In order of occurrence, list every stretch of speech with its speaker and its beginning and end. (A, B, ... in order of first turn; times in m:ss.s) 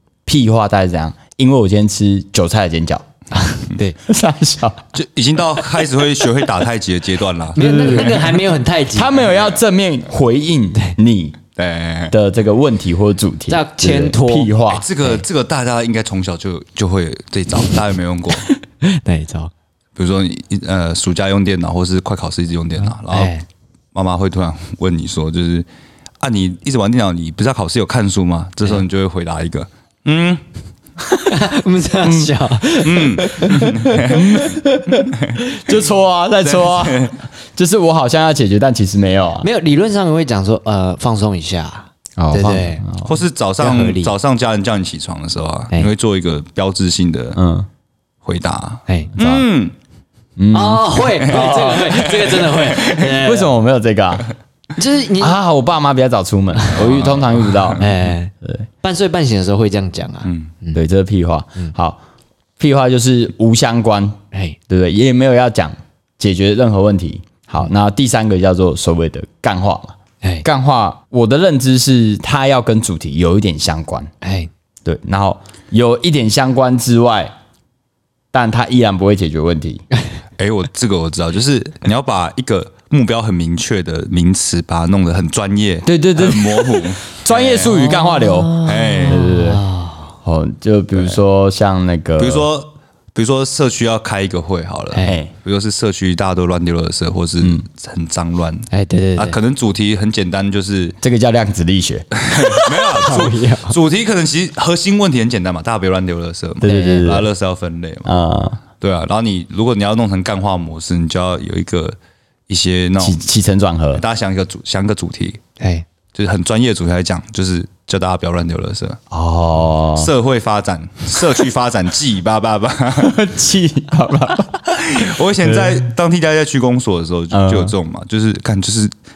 0:00.2-0:03.0 A
0:03.3-0:04.0 B
0:04.0-0:04.8 A
0:04.9-0:08.2 C
0:07.6-0:09.1 B
0:07.6-0:08.3 A
0:08.9-0:11.4 A
0:11.6-0:12.2 C
0:12.1-0:14.8 A
0:13.5-0:15.2 B
0:14.7-0:18.5 C
0:18.5-0:19.5 B
0:20.0-0:23.3 C
0:22.8-0:23.4 B
0:23.9-0:25.6 C
0:26.2-0:30.4 C
0:31.3-0:34.0 B
0:32.0-0:32.3 A
0:32.8-0:34.5 C
0:34.0-0:39.5 A
0:35.1-0:35.4 C
0:36.4-0:37.2 C
0:39.4-0:42.8 B
0:42.2-0:43.1 A
0:43.0-0:47.4 C
0:43.6-0:44.1 B
0:47.3-0:47.7 A
0:48.2-0:49.7 C
0:49.2-0:49.4 A
0:50.4-0:51.9 A
0:50.5-0:53.5 B
0:51.2-0:53.0 C
0:52.9-0:54.3 A
0:54.8-0:55.4 B
0:55.2-0:58.6 A
0:56.7-0:57.8 C
0:57.8-1:00.8 B
1:00.2-1:00.5 C
1:00.7-1:02.0 A
1:02.6-1:14.1 A
1:14.2-1:14.5 B
1:14.8-1:17.3 A
1:18.3-1:19.8 A
1:20.4-1:27.7 C
1:25.8-1:29.6 A
1:27.7-1:30.1 B
1:28.6-1:29.2 C
1:30.2-1:32.5 A
1:32.2-1:41.0 C
1:35.0-1:35.3 A
1:38.7-1:39.4 B
1:41.0-1:42.1 A
1:42.2-1:48.1 C
1:42.3-1:43.7 B
1:46.6-1:47.3 A
1:46.6-1:47.2 B
1:48.0-1:48.6 A
1:48.8-1:52.0 C
1:52.5-1:53.3 C
1:53.0-1:54.0 A
1:53.9-1:55.4 C
1:55.6-1:55.8 B
1:56.1-1:59.0 C
1:59.1-2:00.1 A
1:59.8-2:03.2 C
2:03.0-2:05.9 A
2:04.6-2:08.9 C
2:07.3-2:07.7 A